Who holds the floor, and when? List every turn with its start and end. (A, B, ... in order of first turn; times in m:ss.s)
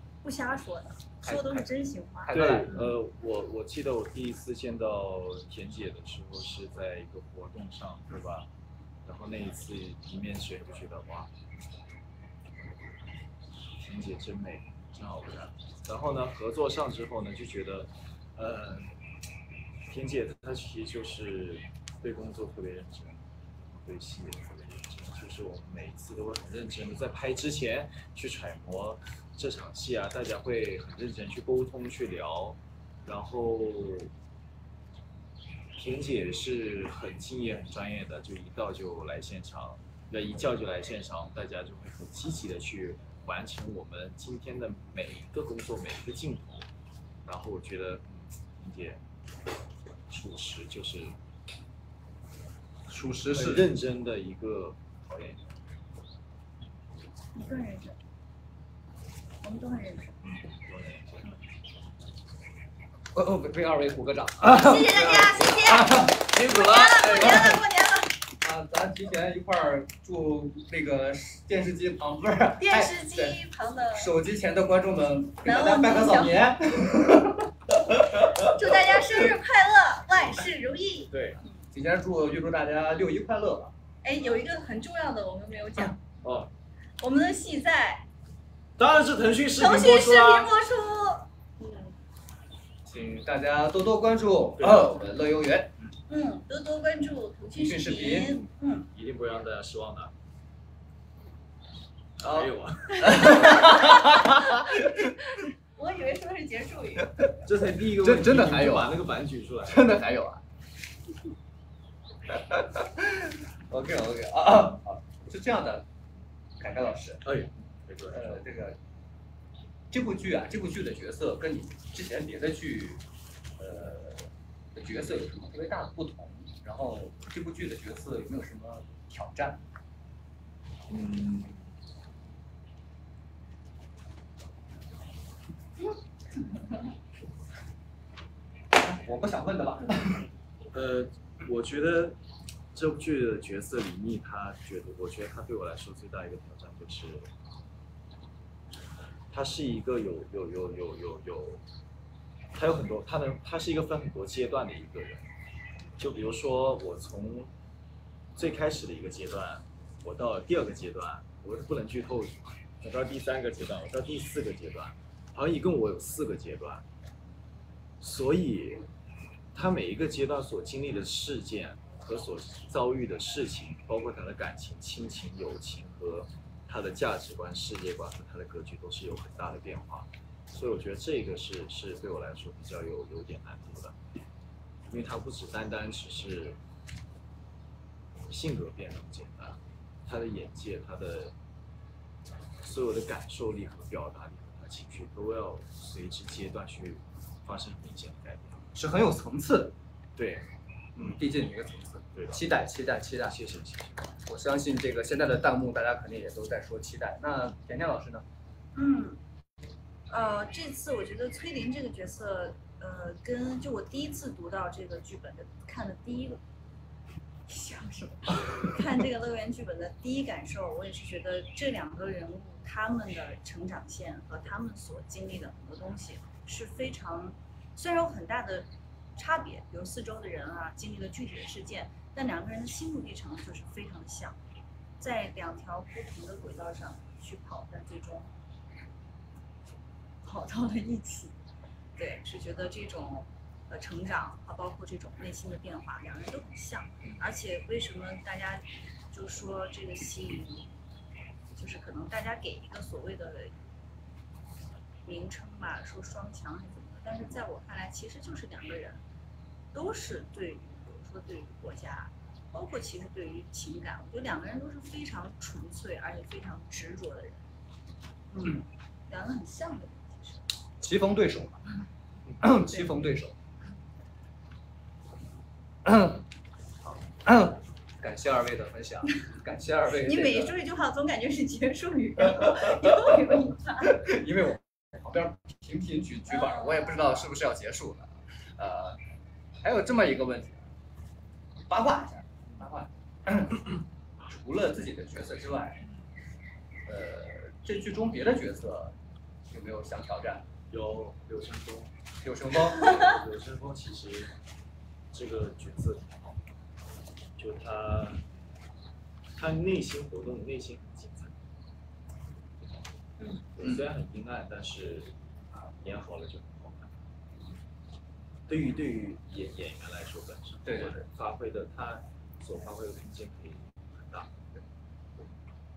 0:00.2-0:02.4 A
0:01.2-0:01.7 B
0:02.2-0:02.9 B
0:02.3-0:08.5 C
0:09.0-0:11.3 C
0:13.8-0:18.9 C
0:19.9-0:34.1 C
0:35.8-0:46.7 C
0:47.2-0:49.0 C
0:50.1-0:51.2 C
0:52.9-0:53.7 B
0:53.3-0:55.4 C
0:57.3-0:58.0 A
0:59.4-1:00.2 A
1:00.2-1:01.2 C
1:03.1-1:07.6 B
1:04.4-1:08.2 A
1:06.3-1:07.6 C
1:08.4-1:13.4 B
1:12.6-1:14.1 A
1:13.9-1:19.2 B
1:15.4-1:16.5 A
1:18.5-1:21.6 A
1:21.1-1:21.4 C
1:21.7-1:23.7 B
1:24.0-1:26.0 A
1:26.2-1:26.5 C
1:27.0-1:28.1 A
1:28.8-1:30.5 C
1:29.6-1:31.9 A
1:32.9-1:35.8 B
1:34.6-1:34.9 C
1:36.1-1:38.9 A
1:37.6-1:38.4 B
1:38.9-1:40.1 C
1:42.2-1:43.6 C
1:42.2-1:45.2 B
1:42.9-1:44.7 A
1:45.3-1:47.1 A
1:47.4-1:49.9 C
1:47.9-1:49.1 B
1:49.6-1:50.4 B
1:52.3-1:55.8 B
1:56.6-1:57.2 B
1:57.2-1:58.4 C
1:58.1-1:58.8 B
1:59.9-2:03.0 B
2:03.6-2:09.6 B
2:10.9-2:11.7 C
2:18.8-2:20.3 B
2:20.7-2:22.2 C
2:22.7-2:27.3 C
2:29.3-2:31.6 C
2:32.5-2:35.3 C
2:36.0-2:37.5 C
2:38.4-2:46.8 C
2:48.0-2:48.9 C
2:49.5-3:04.0 C
3:04.9-3:06.6 C
3:08.3-3:11.3 C
3:12.6-3:18.6 C
3:18.7-3:19.7 B
3:20.2-3:20.5 C
3:21.0-3:23.4 B
3:22.2-3:22.4 C
3:23.3-3:24.2 C
3:24.3-3:28.2 B
3:28.8-3:29.2 A
3:30.1-3:36.4 A
3:37.5-3:54.4 A
3:55.0-3:58.3 A
4:00.2-4:01.4 A
4:02.0-4:10.7 A
4:11.5-4:13.6 A
4:15.0-4:19.0 A
4:19.7-4:27.4 A
4:28.3-4:30.4 A
4:30.8-4:31.6 B
4:32.4-4:33.4 B
4:35.8-4:36.2 B
4:37.2-4:40.6 B
4:40.0-4:44.0 A
4:42.3-4:49.0 B
4:46.3-4:47.2 A
4:49.6-4:50.6 B
4:51.7-4:55.8 B
4:56.9-4:58.9 B
4:59.5-5:00.5 B
5:00.7-5:01.9 C
5:02.2-5:03.0 B
5:02.7-5:04.3 C
5:05.1-5:06.4 C
5:07.4-5:08.2 C
5:09.4-5:11.4 C
5:13.5-5:17.0 C
5:18.5-5:24.4 C
5:20.6-5:21.0 B